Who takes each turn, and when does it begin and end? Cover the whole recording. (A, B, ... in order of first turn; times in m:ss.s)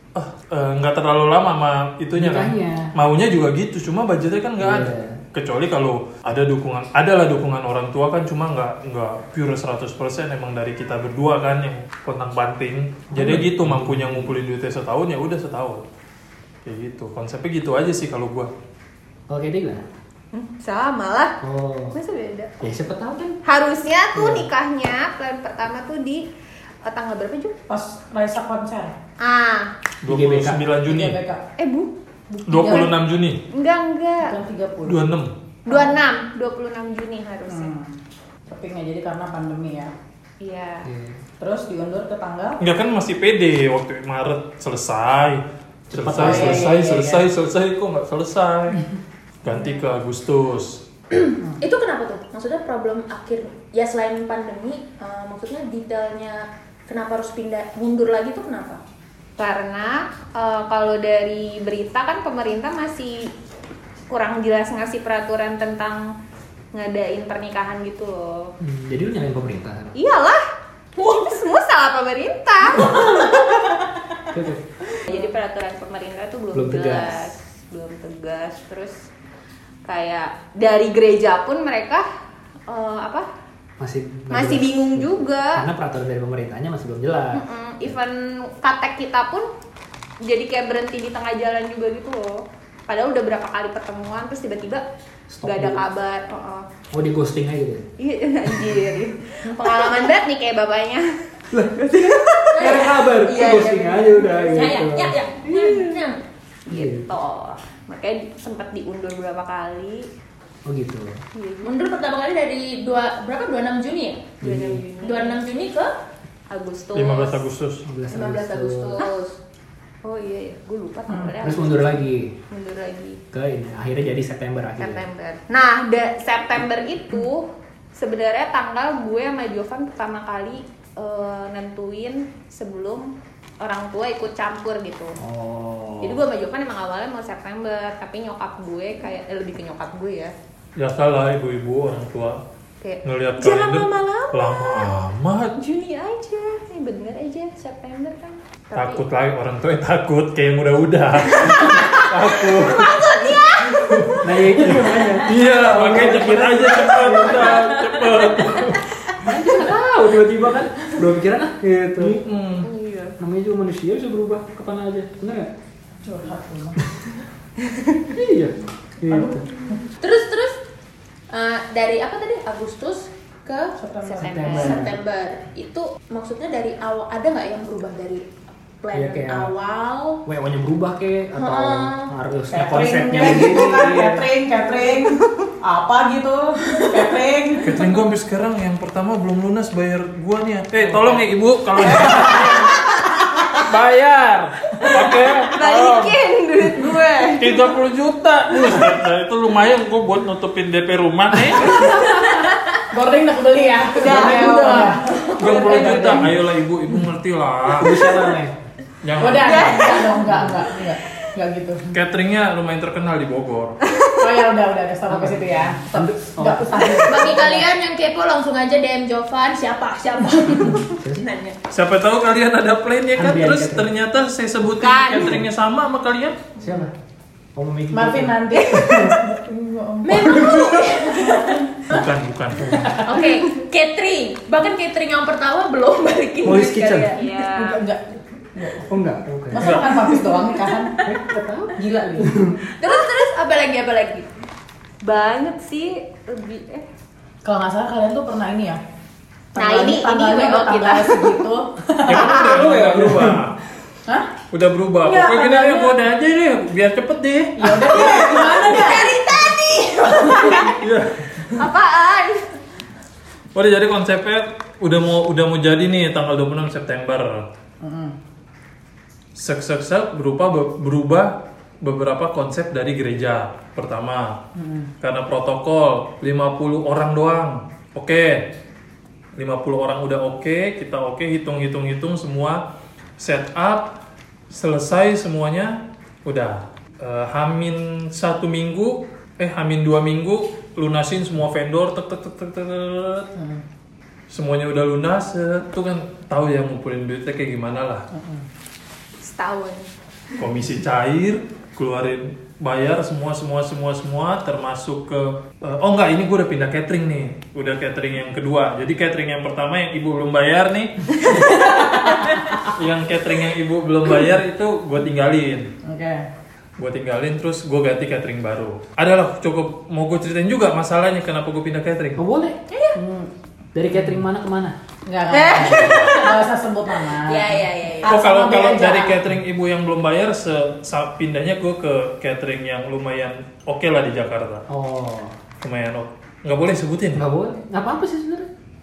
0:00.1-0:15.8 A
0:02.1-0:02.9 B
0:04.6-0:05.2 B
0:13.1-0:14.4 B
0:16.6-0:18.5 A
0:19.3-0:19.8 B
0:20.3-0:21.4 C
0:21.4-0:22.0 B
0:21.9-0:22.8 C
0:22.6-0:23.4 B
0:23.4-0:26.2 C
0:24.1-0:24.5 B
0:26.8-0:27.5 C
0:27.7-0:29.0 D
0:29.2-0:29.7 C
0:30.0-0:31.2 A
0:30.1-0:30.6 B
0:30.9-0:31.4 D
0:31.6-0:31.9 C
0:32.3-0:32.9 D
0:32.5-0:33.4 A
0:32.5-0:32.9 C
0:33.5-0:34.4 C
0:34.2-0:35.0 D
0:34.9-0:35.3 A
0:35.6-0:37.7 C
0:37.5-0:39.9 D
0:40.4-0:40.9 C
0:40.8-0:41.2 B
0:41.4-0:42.6 D
0:42.6-0:48.8 A
0:45.9-0:46.8 B
0:46.1-0:47.2 D
0:49.4-0:50.8 A
0:51.2-0:58.8 E
0:59.4-1:03.3 C
1:04.1-1:06.1 C
1:06.7-1:08.5 C
1:08.6-1:10.0 B
1:10.0-1:10.4 C
1:11.0-1:13.3 C
1:12.8-1:13.1 B
1:13.0-1:13.6 E
1:14.3-1:14.6 B
1:15.0-1:19.0 C
1:16.5-1:17.3 B
1:19.9-1:22.0 C
1:22.7-1:23.2 C
1:23.8-1:27.9 B
1:24.3-1:25.6 C
1:27.3-1:29.5 C
1:30.2-1:34.8 C
1:35.3-1:35.8 B
1:35.4-1:36.7 C
1:36.9-1:37.9 B
1:38.0-1:44.8 C
1:41.5-1:45.2 B
1:42.5-1:43.6 E
1:44.4-1:46.2 E
1:45.5-1:46.0 C
1:46.7-1:50.1 C
1:46.7-1:47.1 B
1:50.6-1:51.2 B
1:51.3-1:51.7 C
1:51.6-1:54.3 E
1:54.4-1:54.8 B
1:54.4-1:55.4 C
1:55.0-1:55.9 E
1:56.5-1:57.4 C
1:56.9-1:57.8 A
1:57.8-1:59.0 B
1:58.1-1:59.4 E
2:00.0-2:03.2 C
2:01.1-2:01.3 D
2:01.4-2:02.3 B
2:03.3-2:05.0 B
2:04.8-2:13.1 C
2:13.6-2:15.2 C
2:15.2-2:16.2 B
2:16.0-2:20.3 C
2:20.8-2:22.4 A
2:22.8-2:25.0 C
2:23.0-2:25.5 A
2:25.6-2:29.0 C
2:28.7-2:33.1 A
2:31.2-2:34.1 C
2:33.8-2:38.9 A
2:34.2-2:37.5 B
2:39.2-2:42.2 B
2:42.0-2:42.7 A
2:42.6-2:43.2 C
2:43.2-2:45.5 B
2:46.0-2:46.8 D
2:47.7-2:48.0 C
2:48.1-2:49.5 B
2:50.0-2:50.6 E
2:51.3-2:53.8 E
2:53.8-2:54.7 D
2:54.0-2:54.9 C
2:54.2-2:55.0 B
2:54.5-2:58.3 E
2:58.8-3:00.2 E
2:58.9-2:59.5 B
3:00.2-3:04.3 B
3:01.4-3:02.1 E
3:02.5-3:07.8 D
3:07.6-3:12.7 A
3:11.8-3:12.8 D
3:13.6-3:16.2 A
3:15.5-3:17.6 C
3:17.4-3:21.9 A
3:21.7-3:22.6 C
3:22.9-3:25.8 D
3:24.0-3:26.3 C
3:24.0-3:26.3 B
3:25.4-3:28.0 A
3:27.8-3:28.5 B
3:29.0-3:30.0 A
3:29.2-3:31.9 D
3:29.2-3:31.2 C
3:30.2-3:30.6 B
3:31.9-3:33.8 A
3:33.8-3:34.4 C
3:34.2-3:37.6 D
3:35.1-3:37.5 B
3:37.0-3:41.6 E
3:40.7-3:41.3 B
3:41.7-3:46.5 A
3:43.2-3:43.9 B
3:44.8-3:45.3 C
3:46.6-3:46.9 B
3:47.5-3:49.2 B
3:47.9-3:51.8 D
3:50.0-3:51.7 E
3:51.9-3:53.0 A
3:52.9-3:53.2 B
3:53.0-3:57.3 E
3:56.4-3:57.1 B
3:57.1-3:57.8 C
3:57.5-3:58.9 D
3:58.9-3:59.8 B
3:59.5-4:01.0 D
3:59.6-4:00.0 A
3:59.8-4:01.0 E
4:01.0-4:02.6 B
4:01.8-4:02.4 D
4:02.8-4:04.3 E
4:05.0-4:06.8 C
4:07.4-4:08.8 D
4:09.5-4:12.6 D
4:09.6-4:11.4 C
4:12.1-4:13.6 A
4:12.2-4:12.4 C
4:12.3-4:13.4 B
4:14.0-4:14.3 D
4:14.5-4:17.9 A
4:15.0-4:15.9 D
4:17.6-4:19.2 D
4:17.8-4:20.8 C
4:18.3-4:18.9 E
4:20.1-4:20.5 E
4:20.2-4:20.7 D
4:20.8-4:21.4 A
4:21.5-4:22.5 C
4:23.5-4:27.5 A
4:27.8-4:28.2 D
4:29.4-4:34.4 A
4:34.6-4:34.9 D
4:35.0-4:38.5 A
4:39.4-4:42.6 A
4:43.2-4:44.0 A
4:44.5-4:53.4 A
4:53.4-4:53.6 D
4:54.3-4:58.1 A
4:58.1-4:58.4 D
4:59.2-5:00.4 C
5:00.4-5:11.4 A
5:11.3-5:12.3 C
5:12.7-5:15.7 A
5:15.9-5:16.3 D
5:16.8-5:22.2 A
5:22.2-5:22.6 B
5:22.9-5:23.3 D
5:23.7-5:24.7 B
5:25.1-5:29.2 D
5:25.3-5:26.4 C
5:25.4-5:26.4 E
5:27.2-5:28.2 E
5:28.0-5:34.6 A
5:34.7-5:35.4 B
5:35.6-5:37.2 A
5:37.2-5:38.5 B